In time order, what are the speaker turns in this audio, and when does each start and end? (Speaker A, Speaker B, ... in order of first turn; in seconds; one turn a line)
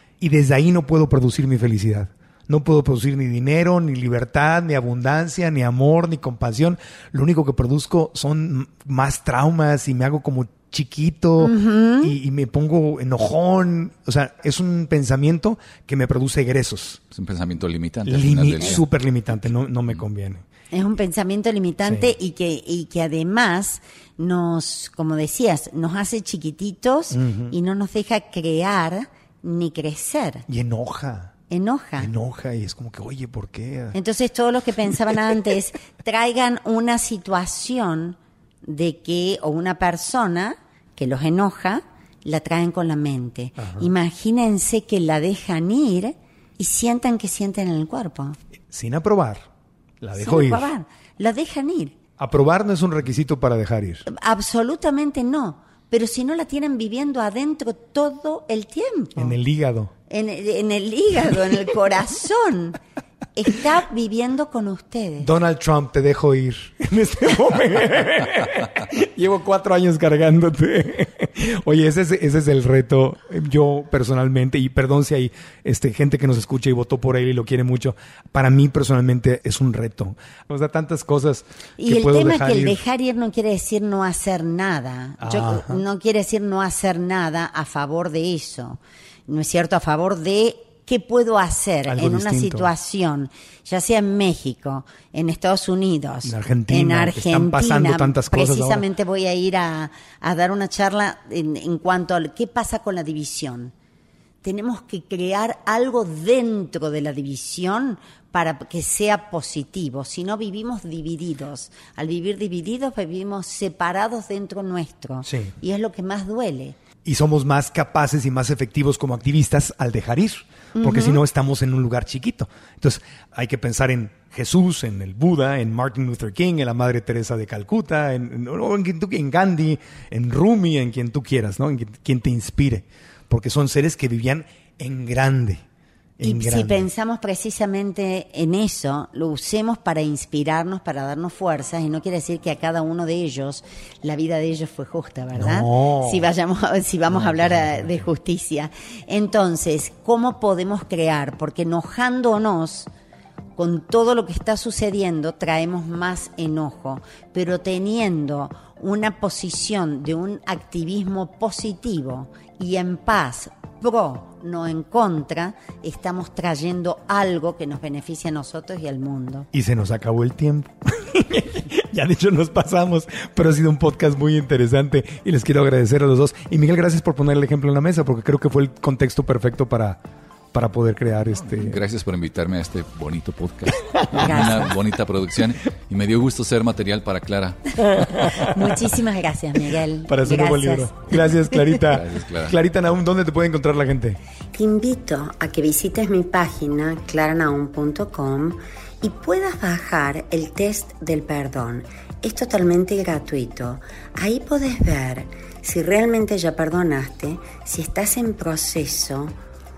Speaker A: 0.2-17.0
Speaker B: 11.4-12.1
Speaker C: 17.1-18.8
Speaker A: 18.0-20.4
Speaker B: 20.7-30.4
Speaker A: 21.9-22.1
Speaker A: 27.1-27.6
Speaker A: 30.5-31.3
Speaker B: 31.5-32.1
Speaker A: 32.0-34.0
Speaker B: 33.9-48.4
Speaker A: 43.6-43.9
Speaker A: 48.7-49.5
Speaker A: 50.0-50.7
Speaker B: 50.2-52.0
Speaker A: 52.2-54.0
Speaker B: 54.1-59.4
Speaker A: 59.2-59.9
Speaker B: 60.1-62.8
Speaker B: 63.4-65.3
Speaker A: 65.2-82.8
Speaker B: 81.8-103.7
Speaker A: 85.2-85.8
Speaker A: 91.9-92.7
Speaker A: 96.2-98.9
Speaker B: 104.4-116.8
Speaker A: 115.2-115.5
Speaker A: 117.0-135.6
Speaker B: 120.8-121.2
Speaker A: 136.2-136.9
Speaker B: 136.2-152.9
Speaker A: 145.3-146.3
Speaker A: 147.1-148.1
Speaker B: 153.6-169.5
Speaker A: 169.5-180.0
Speaker A: 180.5-181.8
Speaker C: 181.4-187.9
Speaker A: 184.2-184.5
Speaker B: 184.2-184.6
Speaker A: 187.9-188.7
Speaker B: 188.3-191.0
Speaker A: 190.1-194.2
Speaker C: 191.9-192.6
Speaker B: 194.5-209.4